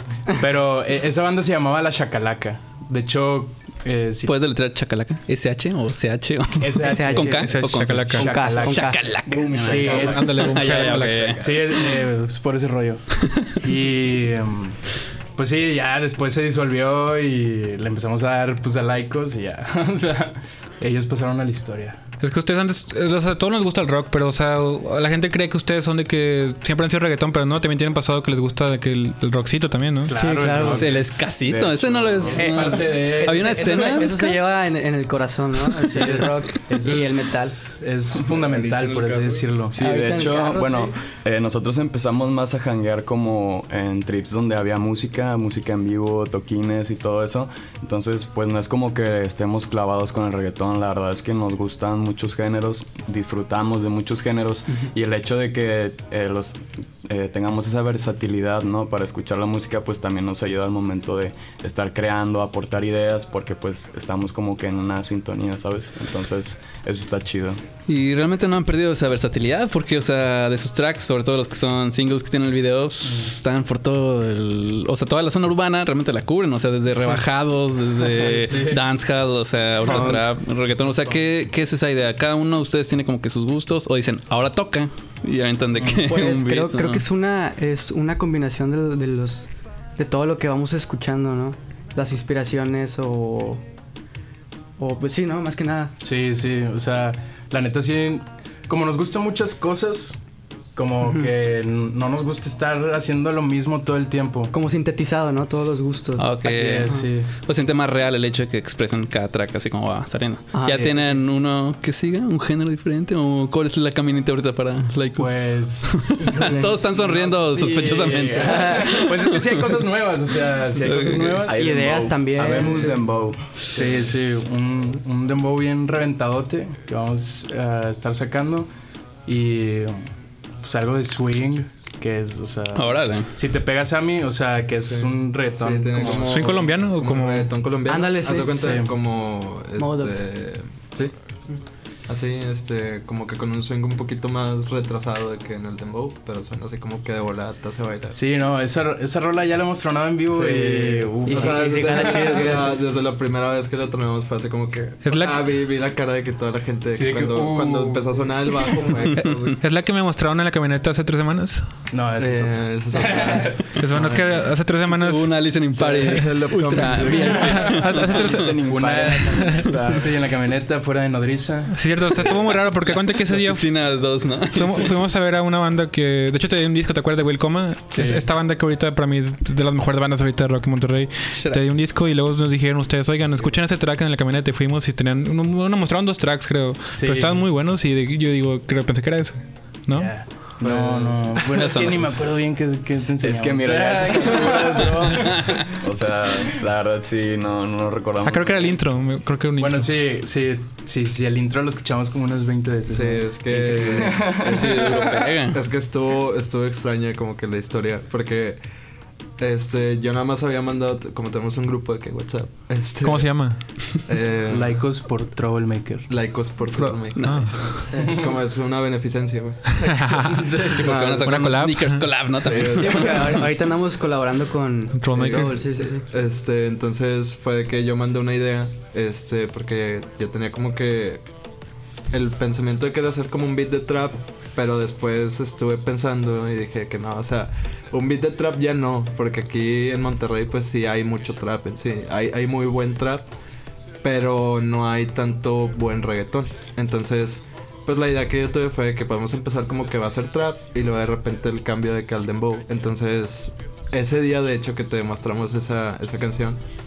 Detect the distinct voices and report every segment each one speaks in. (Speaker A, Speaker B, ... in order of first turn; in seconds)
Speaker A: 0.4-4.3, 6.6-7.4, 8.2-9.0, 9.5-10.5, 11.3-14.8, 15.4-22.0, 30.1-31.2, 32.3-34.3, 35.9-39.8, 77.0-77.2, 77.9-78.8, 79.9-80.2, 85.8-86.2, 96.0-100.2, 100.8-104.5, 106.4-107.3, 110.7-111.1, 115.2-121.7, 122.4-123.0, 123.7-128.7, 129.2-130.0, 130.6-136.5, 138.6-138.9, 148.1-152.6, 156.9-159.1, 161.9-164.2, 167.1-171.8, 177.9-178.2, 186.9-187.5, 189.9-195.6, 199.6-205.2, 214.5-216.1, 220.3-220.8
Speaker B: 4.2-11.9, 13.2-13.5, 30.5-34.1, 67.9-87.0, 106.2-119.8, 120.7-121.4, 132.7-133.3, 159.2-159.5, 164.9-168.6, 172.8-175.0, 181.3-181.6, 191.5-192.3, 204.4-205.6, 217.2-217.8, 220.7-223.3
Speaker C: 6.8-7.6, 8.2-9.2, 30.1-31.1, 32.3-37.6, 39.8-40.9, 79.9-80.2, 86.0-89.5, 90.0-93.6, 94.8-95.9, 101.0-101.3, 104.5-107.0, 110.5-110.9, 118.4-119.2, 121.5-123.0, 137.9-138.9, 139.8-140.2, 151.2-152.8, 217.7-218.2, 222.8-226.1
Speaker D: 7.3-8.3, 10.0-11.4, 22.2-30.1, 136.1-137.5, 155.0-155.4, 159.2-161.6, 163.8-165.4, 167.3-168.7, 169.3-169.8, 171.7-173.7, 174.5-190.5, 198.2-199.9, 213.0-213.6, 216.7-217.7, 219.8-220.5, 221.2-222.2, 224.9-225.6
Speaker E: 9.2-11.6, 31.4-32.5, 39.7-67.6, 121.4-123.4, 168.4-170.2, 190.6-191.4, 193.2-198.7
Speaker F: 38.2-39.5, 134.9-141.1, 142.1-148.2, 150.3-159.6, 162.2-164.3, 165.8-167.5, 202.9-208.6, 209.4-214.8, 216.1-221.5, 222.4-223.5, 225.1-231.2, 232.1-243.3, 244.0-256.6